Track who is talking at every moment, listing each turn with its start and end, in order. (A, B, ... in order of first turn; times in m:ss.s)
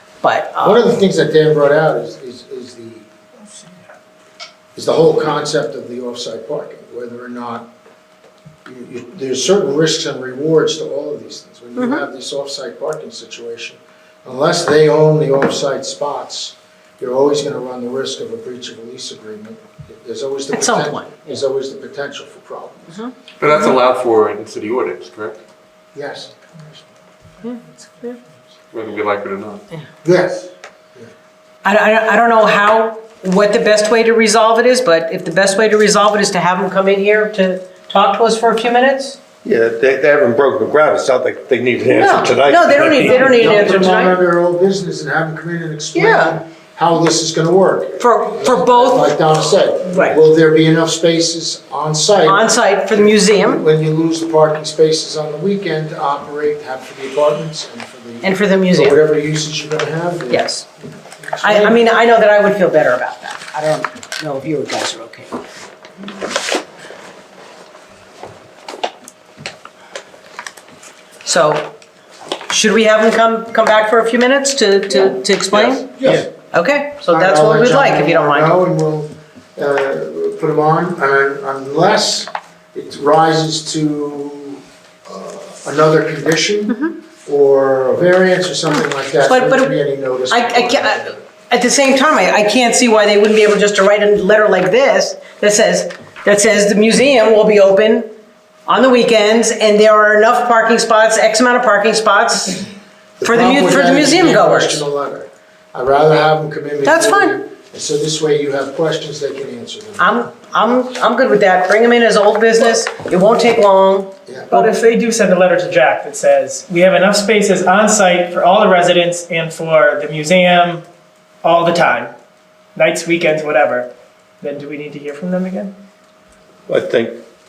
0:00.2-0:00.9 A
0:00.6-0:03.1 B
0:04.7-0:07.7 B
0:08.6-0:23.0 B
0:11.8-0:12.0 A
0:20.5-0:21.2 A
0:23.4-0:25.4 C
0:25.9-0:26.8 B
0:27.4-0:28.2 A
0:28.7-0:29.6 C
0:30.0-0:31.1 B
0:31.6-0:39.2 A
0:39.4-0:43.2 D
0:41.9-0:44.2 A
0:43.0-1:01.8 B
0:45.9-0:46.4 A
0:48.0-0:49.1 A
0:49.9-0:50.2 A
0:52.2-0:53.6 A
0:58.2-0:59.0 A
1:00.3-1:00.6 A
1:01.4-1:05.4 A
1:11.2-1:11.7 A
1:12.5-1:18.5 A
1:15.6-1:16.3 B
1:17.1-1:31.2 B
1:26.7-1:26.9 A
1:28.7-1:29.8 A
1:30.3-1:38.1 A
1:38.6-1:42.7 A
1:43.2-1:50.0 B
1:43.2-1:44.8 A
1:46.8-1:47.4 A
1:50.0-1:54.7 A
1:54.3-1:54.5 B
1:54.5-2:00.8 E
2:01.4-2:02.1 E
2:02.7-2:03.9 E
2:04.4-2:05.7 E
2:06.7-2:07.2 D